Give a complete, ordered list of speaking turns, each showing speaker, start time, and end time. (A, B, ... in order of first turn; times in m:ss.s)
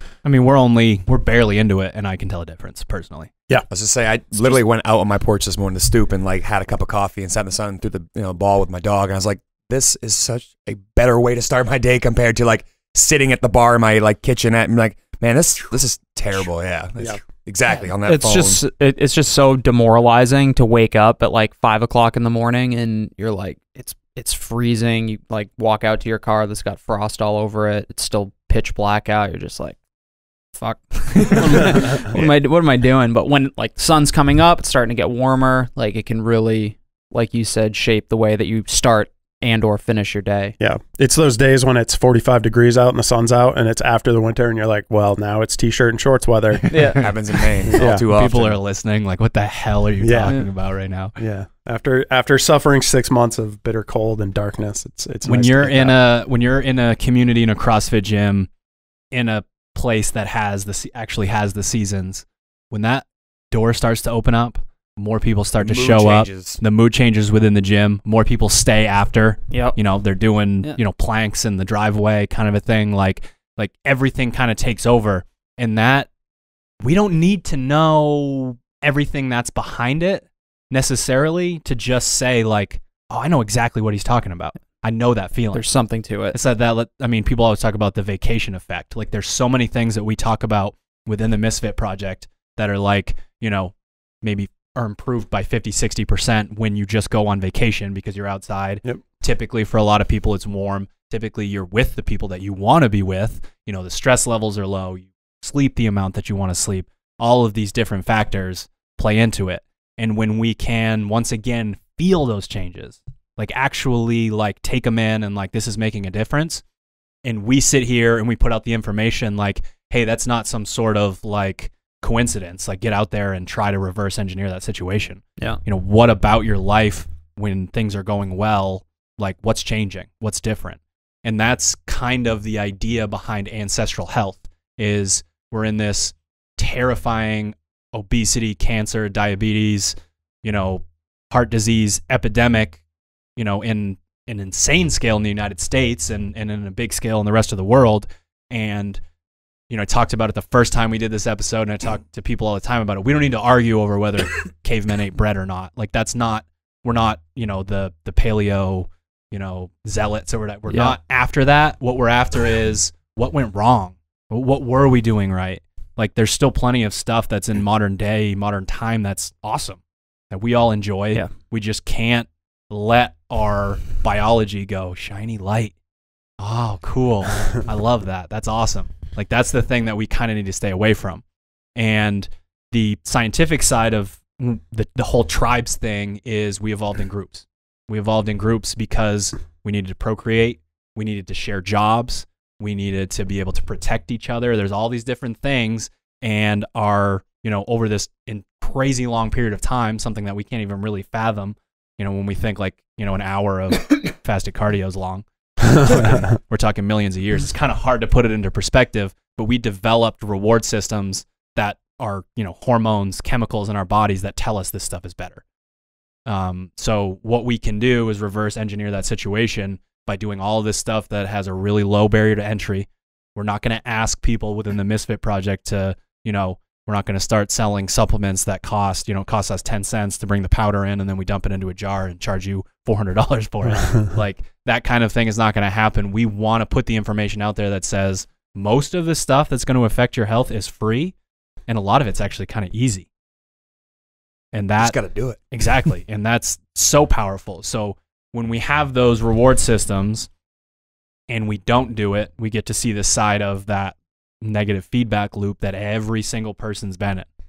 0:00.2-0:03.3 A
0:03.7-0:18.6 B
0:18.0-0:29.8 C
0:30.6-0:40.6 C
0:40.6-0:47.0 D
0:46.7-0:47.0 C
0:46.8-0:47.1 A
0:47.0-0:48.6 B
0:47.7-0:51.2 A
0:47.7-0:48.0 D
0:50.0-0:50.4 D
0:51.2-0:56.0 D
0:55.2-0:58.5 A
0:59.1-1:16.1 A
1:05.6-1:06.6 B
1:16.8-1:25.6 A
1:25.5-1:26.4 C
1:26.3-1:56.6 A
1:57.2-2:22.8 A
2:23.4-2:29.0 A
2:29.7-2:49.8 A
2:40.7-2:41.0 C
2:50.3-2:55.7 A
2:56.4-3:01.2 A
3:01.8-3:35.4 A
3:25.8-3:26.2 D
3:36.3-4:01.1 A
4:01.7-4:03.1 A
4:04.5-4:05.0 A
4:04.8-4:05.4 B
4:05.5-4:10.3 A
4:11.3-4:17.3 A